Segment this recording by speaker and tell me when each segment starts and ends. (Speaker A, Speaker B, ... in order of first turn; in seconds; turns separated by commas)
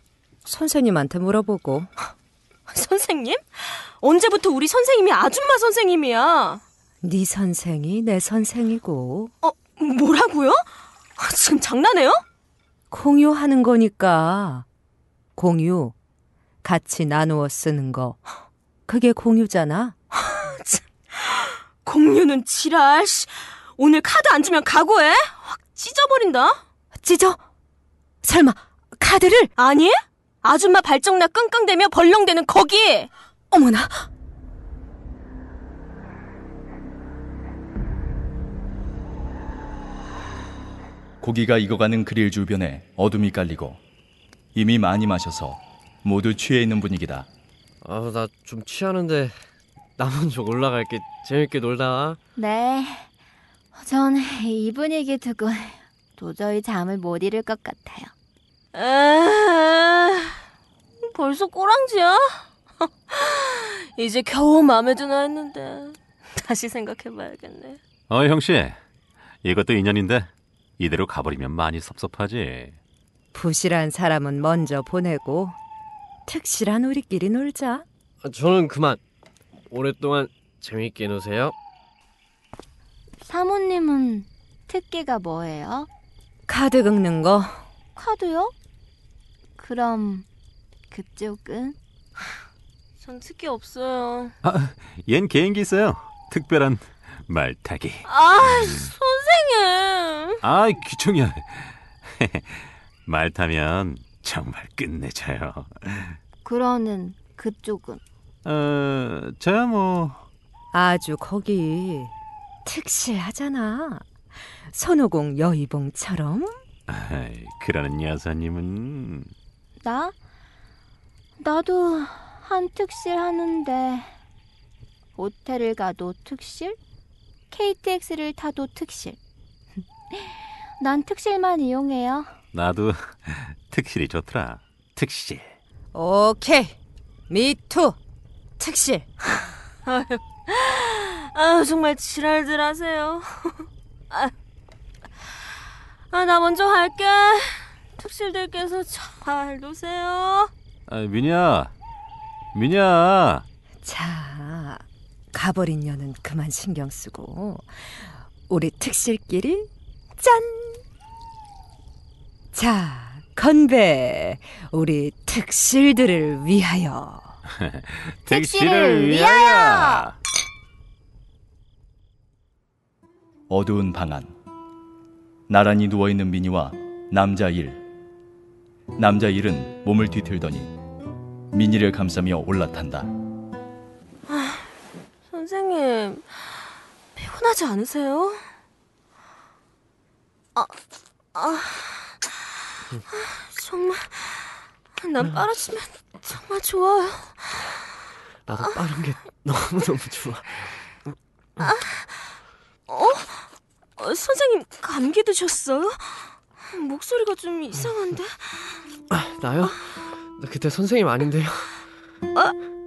Speaker A: 0.5-1.9, Speaker B: 2.7-6.6, Speaker A: 7.0-9.3, Speaker B: 9.4-10.6, Speaker B: 11.2-12.2, Speaker A: 12.9-14.7, Speaker A: 15.4-15.9, Speaker A: 16.6-18.2, Speaker A: 18.9-19.9, Speaker B: 20.1-26.6, Speaker A: 27.0-27.4, Speaker A: 28.2-29.5, Speaker B: 29.6-33.1, Speaker A: 33.5-34.1, Speaker C: 41.2-43.8, Speaker C: 44.5-47.3, Speaker D: 47.8-49.3, Speaker D: 50.0-52.2, Speaker E: 52.4-53.1, Speaker E: 53.7-58.1, Speaker B: 58.7-60.3, Speaker B: 61.1-62.4, Speaker B: 63.1-67.8, Speaker F: 68.1-68.8, Speaker F: 69.4-72.8, Speaker A: 73.3-75.5, Speaker A: 76.2-77.9, Speaker D: 78.2-79.0, Speaker D: 79.7-81.5, Speaker E: 83.2-85.9, Speaker A: 86.5-87.6, Speaker E: 88.0-88.5, Speaker E: 89.6-90.2, Speaker E: 90.9-91.8, Speaker B: 93.0-94.3, Speaker F: 94.4-98.9, Speaker B: 98.0-100.4, Speaker F: 100.4-106.2, Speaker E: 106.4-108.0, Speaker F: 108.4-110.2, Speaker A: 110.7-112.1, Speaker A: 112.6-114.0, Speaker A: 114.7-116.6, Speaker F: 116.9-119.3, Speaker E: 119.8-120.1, Speaker E: 121.4-124.1, Speaker E: 125.2-126.8, Speaker E: 127.5-129.2, Speaker E: 130.1-132.3, Speaker F: 132.5-135.6, Speaker A: 135.9-136.8, Speaker A: 137.3-138.0, Speaker A: 138.6-139.1, Speaker B: 139.9-144.3, Speaker B: 146.1-150.5, Speaker F: 150.9-151.7, Speaker F: 152.5-153.4, Speaker A: 153.8-157.9, Speaker A: 158.5-160.8, Speaker A: 162.5-167.3, Speaker F: 167.6-170.2, Speaker E: 168.3-170.1, Speaker C: 173.5-174.3, Speaker C: 175.5-177.8, Speaker C: 179.0-180.7, Speaker C: 181.5-183.1, Speaker B: 184.3-184.7, Speaker B: 185.3-186.6, Speaker B: 187.2-188.4, Speaker B: 191.3-192.2, Speaker B: 193.1-197.7, Speaker D: 198.5-200.7, Speaker B: 201.6-202.4, Speaker B: 202.9-203.4, Speaker B: 204.0-208.8, Speaker D: 209.1-211.7